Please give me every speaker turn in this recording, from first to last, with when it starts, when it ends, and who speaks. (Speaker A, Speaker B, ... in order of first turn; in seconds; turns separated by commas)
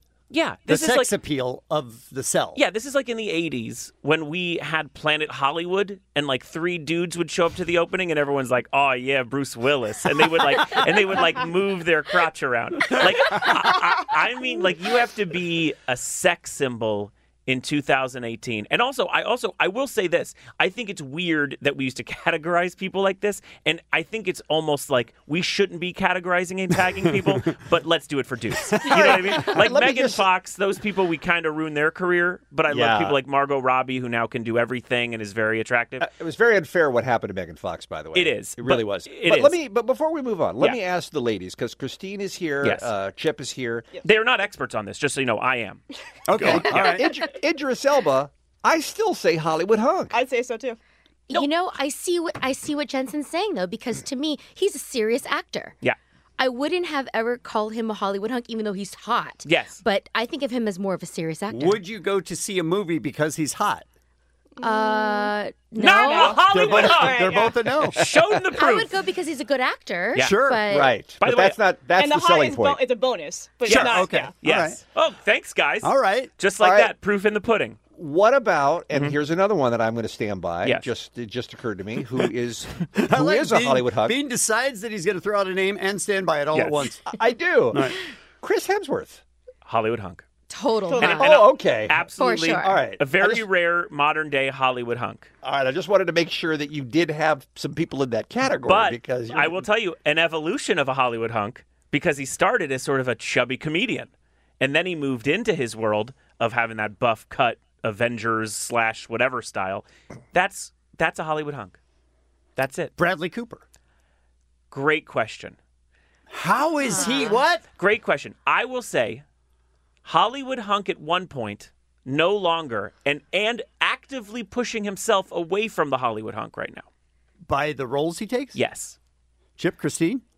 Speaker A: 0.3-1.1, Speaker B: 0.7-2.6, Speaker A: 2.5-36.1, Speaker C: 28.9-30.2, Speaker C: 32.7-33.1, Speaker C: 36.0-43.9, Speaker A: 38.1-39.6, Speaker A: 42.6-42.9, Speaker A: 44.0-45.8, Speaker B: 46.3-47.1, Speaker A: 46.3-47.0, Speaker C: 46.6-50.1, Speaker D: 50.1-50.8, Speaker E: 51.3-55.7, Speaker E: 56.4-61.8, Speaker A: 59.4-59.8, Speaker B: 61.5-63.8, Speaker D: 64.6-65.3, Speaker E: 64.6-66.4, Speaker A: 65.8-68.9, Speaker D: 66.0-67.5, Speaker B: 66.5-68.0, Speaker E: 68.5-71.0, Speaker A: 70.1-70.4, Speaker B: 70.2-70.7, Speaker C: 70.7-72.8, Speaker A: 71.2-71.6, Speaker D: 72.0-74.3, Speaker B: 73.7-74.8, Speaker A: 73.7-77.8, Speaker B: 75.8-76.3, Speaker C: 76.6-76.9, Speaker C: 77.9-84.2, Speaker B: 82.9-87.0, Speaker A: 86.5-86.8, Speaker C: 87.1-89.2, Speaker A: 89.6-90.2, Speaker E: 90.5-91.3, Speaker A: 91.0-95.3, Speaker C: 91.0-93.1, Speaker E: 92.1-92.8, Speaker C: 95.4-99.6, Speaker A: 98.6-111.8, Speaker A: 112.5-112.9, Speaker B: 113.0-113.6, Speaker A: 114.7-115.6, Speaker B: 116.3-117.6, Speaker E: 116.8-117.4, Speaker A: 117.8-119.2, Speaker A: 120.0-126.9, Speaker B: 127.5-128.6, Speaker A: 128.5-129.0, Speaker B: 129.6-130.2